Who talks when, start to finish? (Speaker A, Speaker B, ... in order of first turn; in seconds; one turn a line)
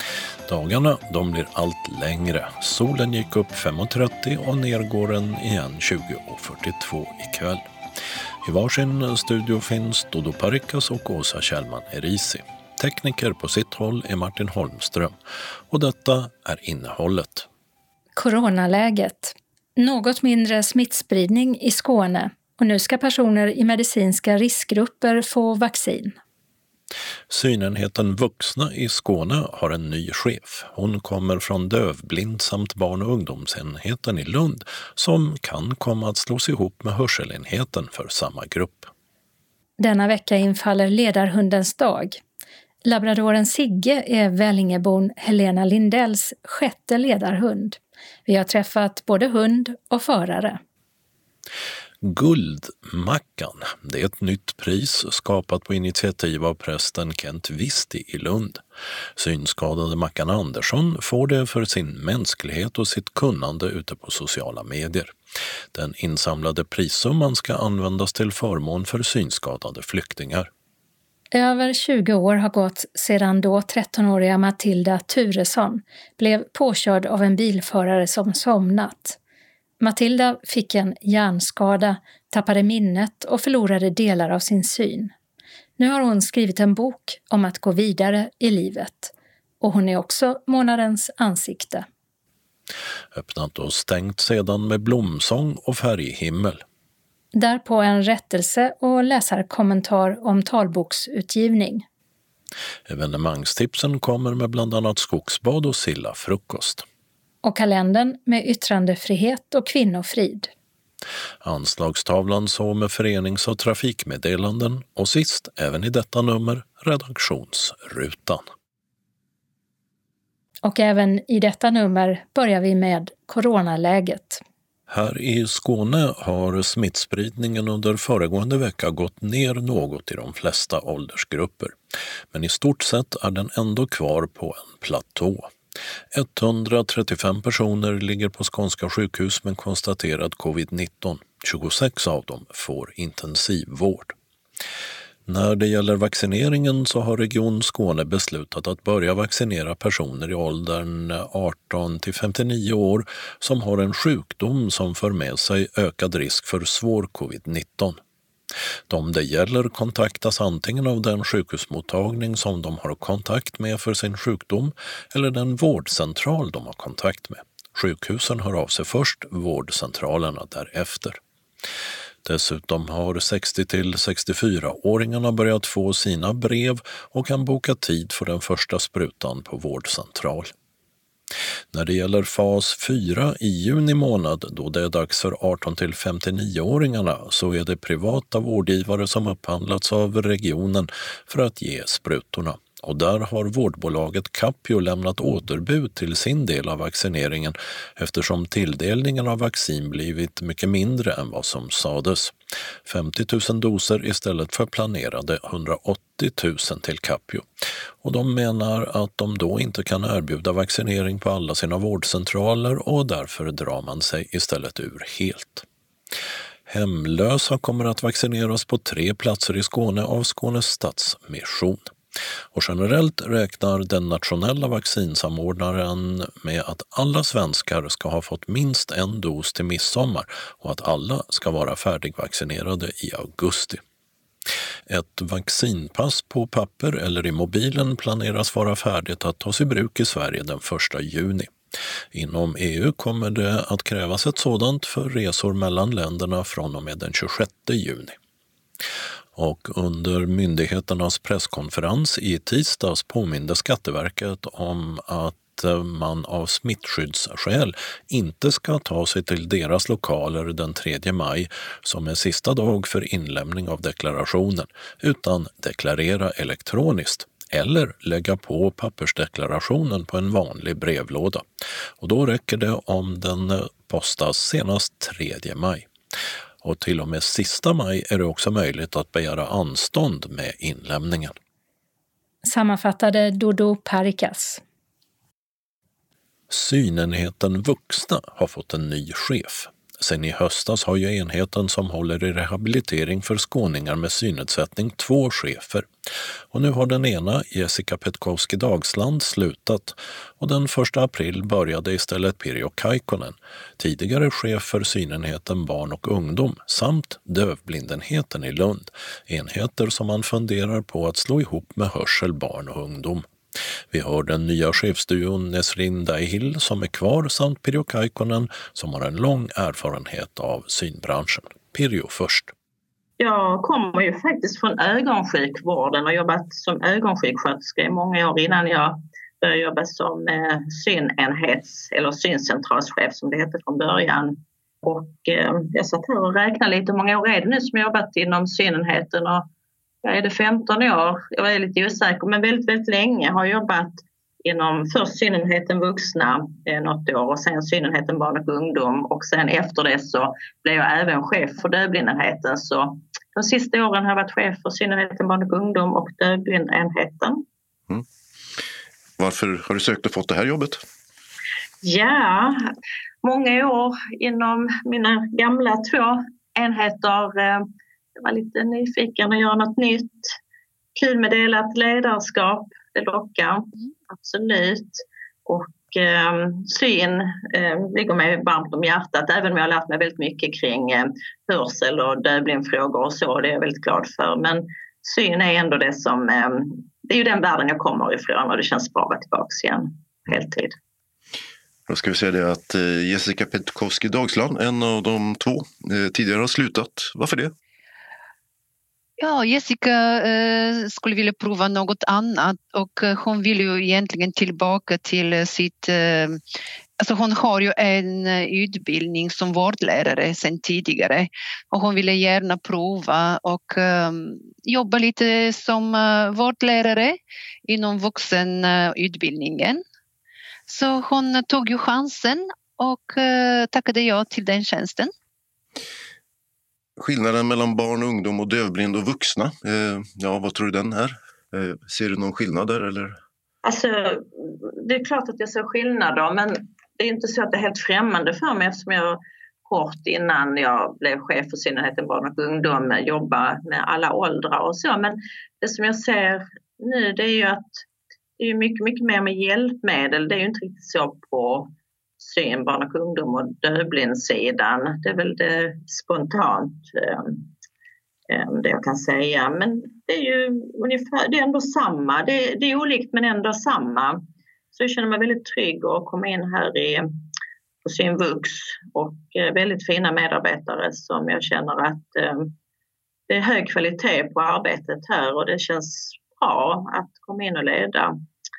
Speaker A: 0.5-7.7
Speaker A: 8.4-15.2
Speaker A: 15.7-17.5
Speaker B: 18.2-26.2
Speaker A: 27.3-38.9
Speaker B: 39.8-42.2
Speaker B: 42.8-50.6
Speaker A: 52.0-58.6
Speaker A: 59.2-65.1
Speaker A: 65.7-70.5
Speaker B: 71.3-79.2
Speaker B: 79.8-85.1
Speaker B: 85.8-91.9
Speaker A: 93.1-96.6
Speaker B: 97.3-101.9
Speaker A: 102.9-106.8
Speaker B: 107.4-110.5
Speaker A: 111.4-118.4
Speaker B: 120.6-124.4
Speaker A: 124.9-131.8
Speaker A: 132.3-135.5
Speaker A: 136.1-144.2
Speaker A: 145.3-158.0
Speaker A: 158.9-171.2
Speaker A: 172.2-180.5
Speaker A: 181.7-207.5
Speaker A: 208.0-215.7
Speaker A: 216.7-221.9
Speaker A: 222.5-233.8
Speaker A: 234.9-241.5
Speaker A: 242.1-248.2
Speaker A: 249.3-271.4
Speaker A: 272.0-275.9
Speaker A: 276.6-281.3
Speaker B: 282.4-284.6
Speaker A: 286.5-295.9
Speaker A: 296.5-313.3
Speaker A: 313.9-322.5
Speaker C: 323.2-339.5
Speaker C: 340.0-357.4
Speaker D: 359.2-360.8
Speaker C: 361.8-362.7
Speaker C: 363.2-370.4
Speaker C: 371.0-390.8
Speaker D: 391.9-397.5
Speaker E: 399.2-406.4
Speaker E: 407.0-419.8
Speaker E: 420.7-425.1
Speaker D: 427.0-433.2
Speaker C: 433.6-447.8
Speaker C: 448.4-457.5
Speaker C: 458.3-467.1
Speaker C: 467.9-472.5
Speaker C: 473.3-478.1